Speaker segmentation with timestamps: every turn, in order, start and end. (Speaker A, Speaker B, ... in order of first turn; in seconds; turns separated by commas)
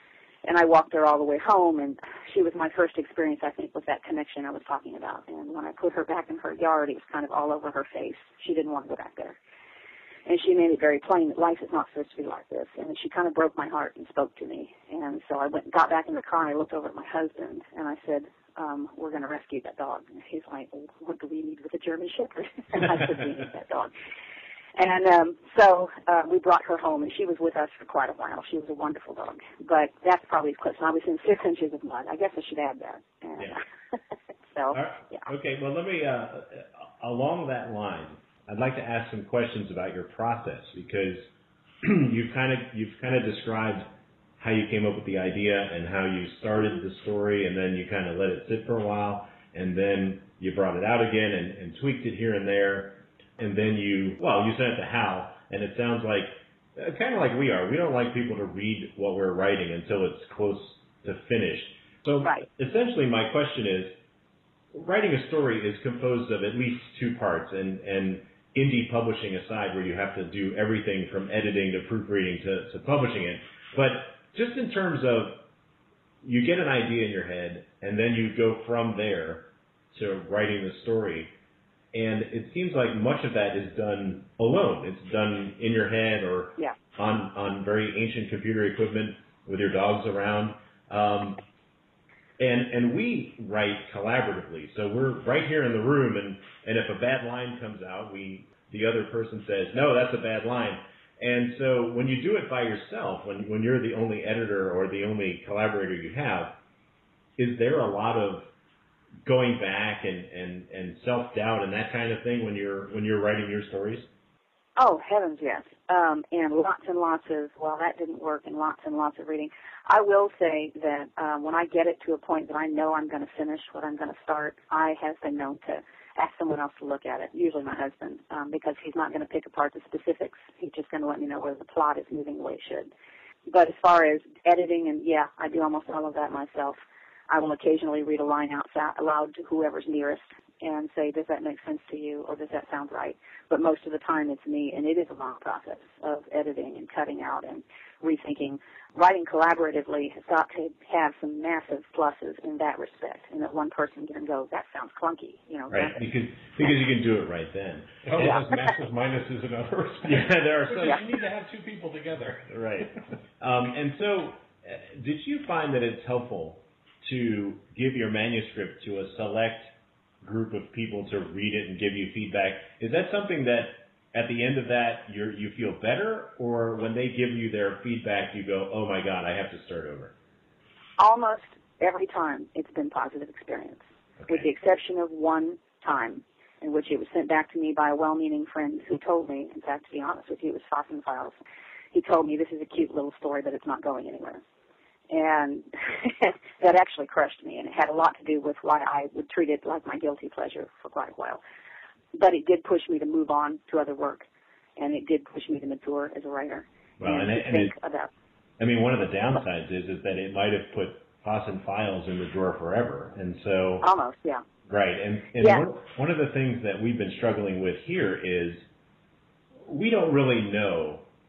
Speaker A: 0.5-9.4, Speaker A: 10.2-23.9, Speaker A: 24.8-33.6, Speaker A: 34.5-35.2, Speaker B: 34.7-41.3, Speaker B: 41.8-43.9, Speaker B: 44.4-64.0, Speaker B: 64.7-75.4, Speaker B: 76.2-81.3, Speaker B: 81.9-91.4, Speaker B: 92.4-106.5, Speaker B: 107.4-108.5, Speaker B: 109.2-114.1, Speaker A: 114.8-132.9, Speaker A: 133.5-136.8, Speaker A: 137.3-156.0, Speaker B: 155.7-158.3, Speaker C: 158.1-163.0, Speaker B: 160.0-161.0, Speaker B: 162.5-180.1, Speaker A: 181.0-191.3, Speaker B: 184.2-184.5, Speaker A: 191.9-194.4, Speaker A: 195.1-201.4, Speaker A: 202.1-204.2, Speaker A: 204.8-208.1, Speaker B: 207.0-207.7, Speaker B: 208.6-213.8, Speaker A: 213.8-214.4, Speaker B: 214.7-218.6, Speaker B: 219.6-221.0